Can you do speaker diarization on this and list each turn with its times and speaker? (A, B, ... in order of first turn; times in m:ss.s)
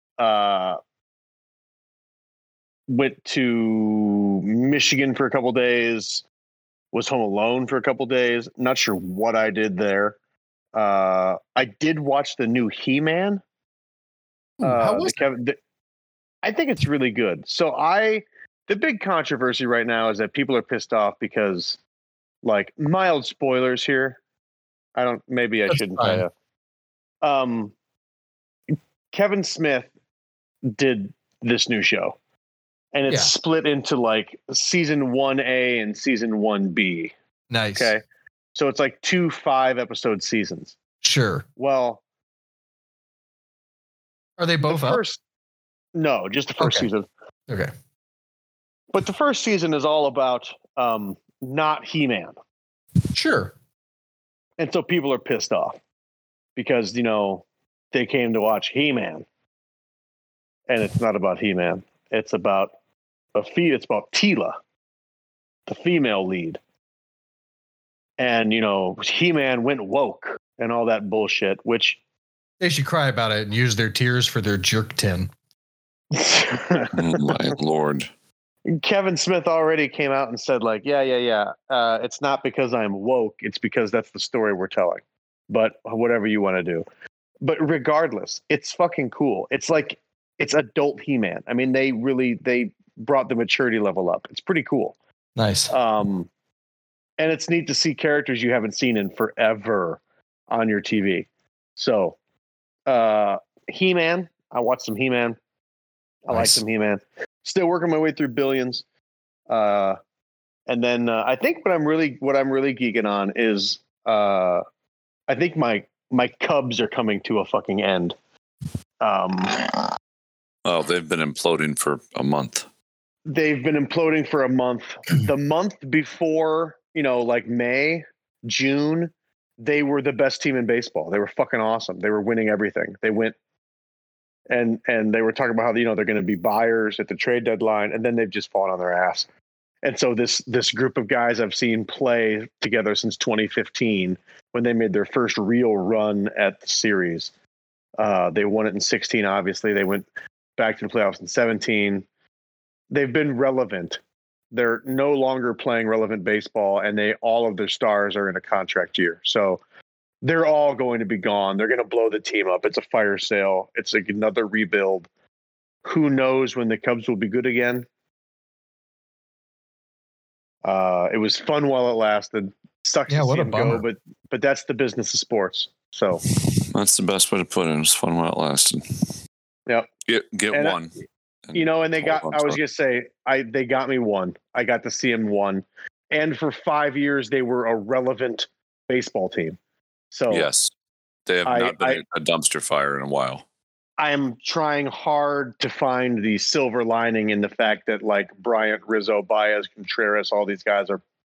0:00.2-0:00.8 A
0:02.9-0:06.2 A
0:06.9-0:10.2 A
0:10.7-0:13.4 A
0:14.6-0:15.2 B
0:14.6-0:15.6 A
0:16.4-0:21.8 A
0:22.4-0:24.2 A
0:25.0-0:26.3 A
0:25.7-0:26.2 B
0:27.2-0:27.7 A
0:29.1-0:29.9 A
0:30.6-0:32.2 A
0:32.9-0:37.1 A
0:37.5-0:37.9 B
0:37.7-0:38.0 A
0:38.5-0:40.7 A
0:41.0-0:41.4 B
0:41.6-0:42.0 A
0:44.4-0:45.0 B
0:44.6-0:45.2 A
0:45.9-0:47.1 A
0:46.6-0:46.9 B
0:48.9-0:52.3 A
0:53.1-0:53.5 B
0:54.6-0:55.8 A
0:56.6-0:59.2 A
1:00.7-1:02.7 A
1:03.3-1:04.6 A
1:05.7-1:06.6 A
1:08.2-1:12.0 A
1:12.6-1:15.3 B
1:16.1-1:17.3 A
1:16.9-1:18.1 C
1:18.7-1:26.8 A
1:27.4-1:35.0 A
1:35.4-1:35.7 B
1:35.7-1:36.3 A
1:37.2-1:42.2 A
1:42.8-1:45.4 A
1:46.2-1:48.8 A
1:46.3-1:46.6 B
1:49.5-1:50.0 A
1:50.7-1:54.6 A
1:55.3-1:58.1 A
1:59.0-1:59.8 A
2:00.6-2:02.6 C
2:03.2-2:13.3 A
2:14.5-2:19.2 A
2:19.8-2:27.3 A
2:28.0-2:32.0 A
2:32.9-2:34.0 A
2:34.5-2:39.6 A
2:40.2-2:45.1 A
2:45.8-2:47.8 A
2:50.6-2:56.2 A
2:53.1-2:53.8 B
2:56.4-2:59.2 C
3:00.1-3:00.9 C
3:00.5-3:00.8 A
3:01.5-3:02.6 C
3:01.5-3:09.6 A
3:10.1-3:10.5 A
3:10.3-3:10.7 C
3:11.3-3:13.4 C
3:11.4-3:12.0 A
3:14.0-3:21.0 A